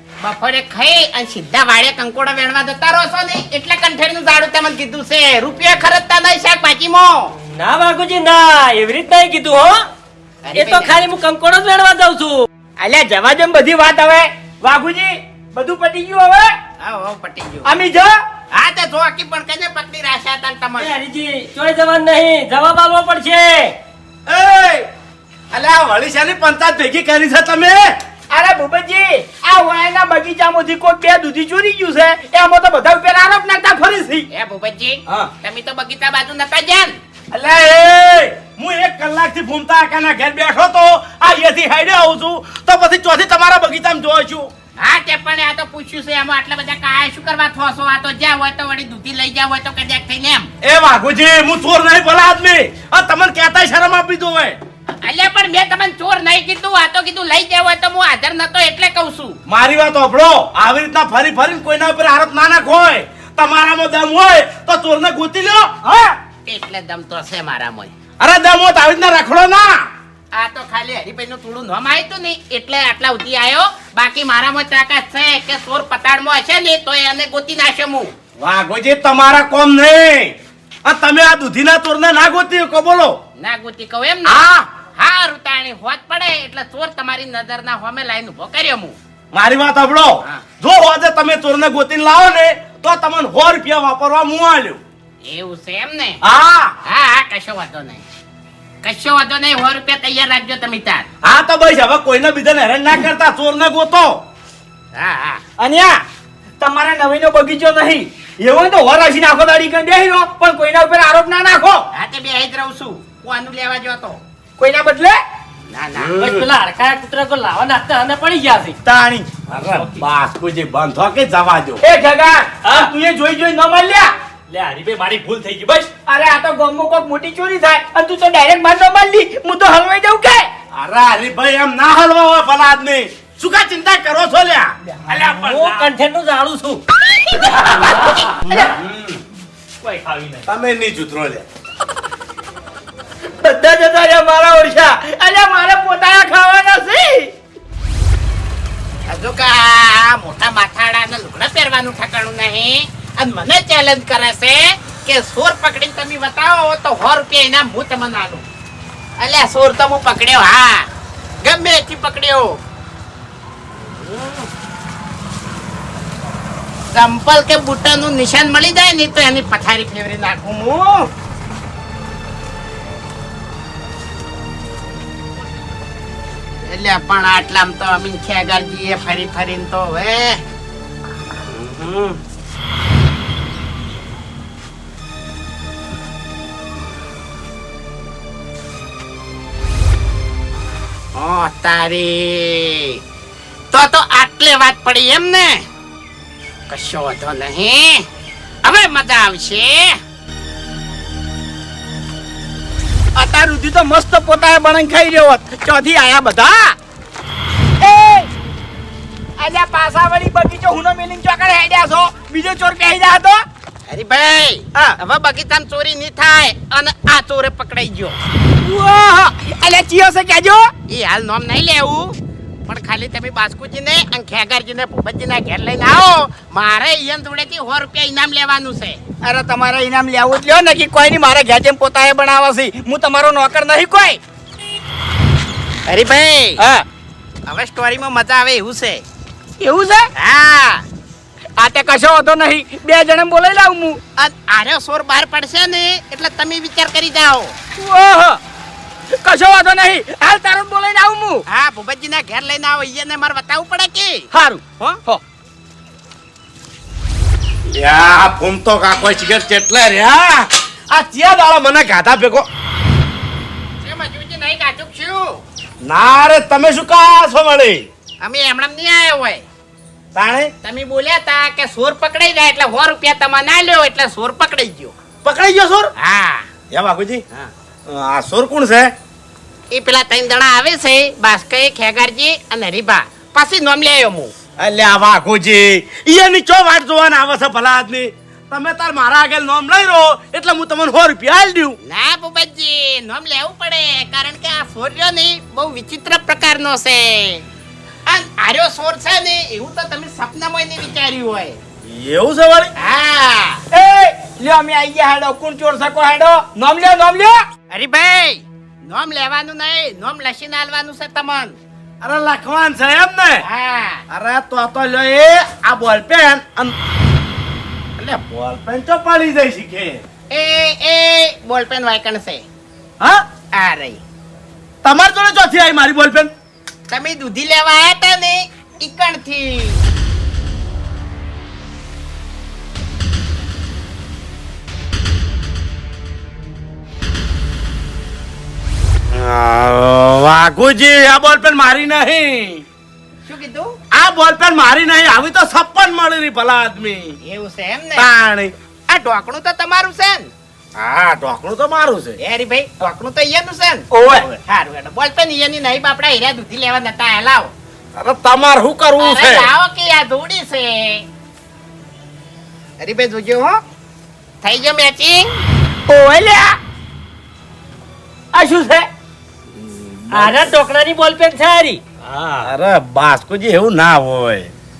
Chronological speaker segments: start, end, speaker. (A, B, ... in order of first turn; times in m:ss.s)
0:00.2-0:07.3 A
0:07.5-0:09.8 B
0:10.4-0:11.0 A
0:10.5-0:12.4 B
0:12.8-0:16.6 C
0:16.8-0:17.7 A
0:17.6-0:18.2 C
0:18.5-0:20.9 A
0:20.8-0:23.8 B
0:24.3-0:24.9 D
0:25.5-0:28.0 D
0:28.3-0:34.3 C
0:34.3-0:37.0 A
0:37.3-0:44.5 D
0:44.8-0:50.5 A
0:50.6-0:54.6 D
0:55.0-0:59.4 A
0:59.5-1:05.7 D
1:05.8-1:06.1 C
1:06.4-1:07.9 A
1:08.2-1:09.9 D
1:10.3-1:18.1 A
1:18.4-1:23.2 D
1:23.4-1:24.4 A
1:24.2-1:24.7 D
1:25.0-1:29.0 A
1:29.3-1:34.8 D
1:35.2-1:36.2 A
1:36.2-1:36.8 D
1:36.8-1:38.0 A
1:38.8-1:41.1 A
1:41.2-1:44.2 D
1:44.9-1:45.4 A
1:45.6-1:46.0 C
1:46.6-1:51.8 C
1:51.9-1:54.2 A
1:54.6-1:55.2 C
1:55.7-1:56.2 A
1:56.0-1:56.5 D
1:56.2-1:58.8 B
1:58.8-1:59.3 C
1:59.5-2:01.8 D
2:01.8-2:04.1 C
2:02.6-2:02.9 E
2:04.5-2:05.9 E
2:06.1-2:10.5 C
2:10.7-2:14.7 D
2:15.1-2:15.9 E
2:15.4-2:16.8 B
2:18.5-2:19.2 D
2:19.8-2:20.4 E
2:20.4-2:21.4 D
2:23.4-2:27.3 C
2:29.1-2:38.4 A
2:39.2-2:40.9 A
2:41.4-2:42.6 A
2:43.8-2:44.5 A
2:46.9-2:51.1 A
2:56.6-3:00.4 A
3:01.5-3:02.2 A
3:11.1-3:13.0 A
3:13.7-3:15.6 A
3:16.7-3:18.1 A
3:18.6-3:20.0 A
3:23.2-3:26.8 C
3:27.8-3:28.3 C
3:29.4-3:33.4 C
3:33.9-3:38.2 A
3:38.6-3:40.7 C
3:40.9-3:49.0 A
3:49.2-3:54.2 C
3:55.9-3:56.6 A
3:56.6-3:56.8 C
3:57.5-3:59.0 A
3:59.6-4:00.1 C
4:00.2-4:00.8 A
4:01.6-4:04.0 C
4:04.2-4:07.5 A
4:07.7-4:08.4 C
4:09.2-4:11.4 C
4:11.5-4:14.3 A
4:14.3-4:15.2 C
4:17.7-4:22.5 D
4:23.8-4:25.4 A
4:25.8-4:27.9 D
4:28.2-4:29.4 A
4:30.1-4:30.5 D
4:30.6-4:34.9 A
4:35.2-4:35.9 D
4:36.0-4:36.5 A
4:36.7-4:37.2 D
4:37.8-4:38.9 D
4:39.7-4:44.3 A
4:44.6-4:51.8 D
4:51.8-4:57.4 A
4:58.0-5:01.6 A
5:01.8-5:02.7 D
5:02.8-5:03.6 A
5:03.7-5:07.4 C
5:07.7-5:11.6 A
5:12.0-5:13.4 D
5:13.4-5:14.0 A
5:14.1-5:16.8 D
5:18.0-5:20.0 D
5:20.3-5:22.4 A
5:23.5-5:24.0 A
5:24.8-5:26.3 D
5:26.9-5:29.8 A
5:39.1-5:42.6 D
5:43.2-5:43.8 A
5:43.9-5:47.2 D
5:47.2-5:48.1 A
5:48.0-5:48.5 D
5:48.9-5:50.3 A
5:50.8-5:52.2 D
5:52.2-5:53.8 A
5:53.9-5:54.3 C
5:54.4-5:57.5 A
5:58.0-5:59.5 D
5:59.0-6:01.0 A
6:02.8-6:03.6 A
6:04.4-6:05.4 A
6:05.9-6:06.6 C
6:08.3-6:08.9 C
6:09.6-6:10.5 D
6:10.1-6:12.5 B
6:12.4-6:14.5 D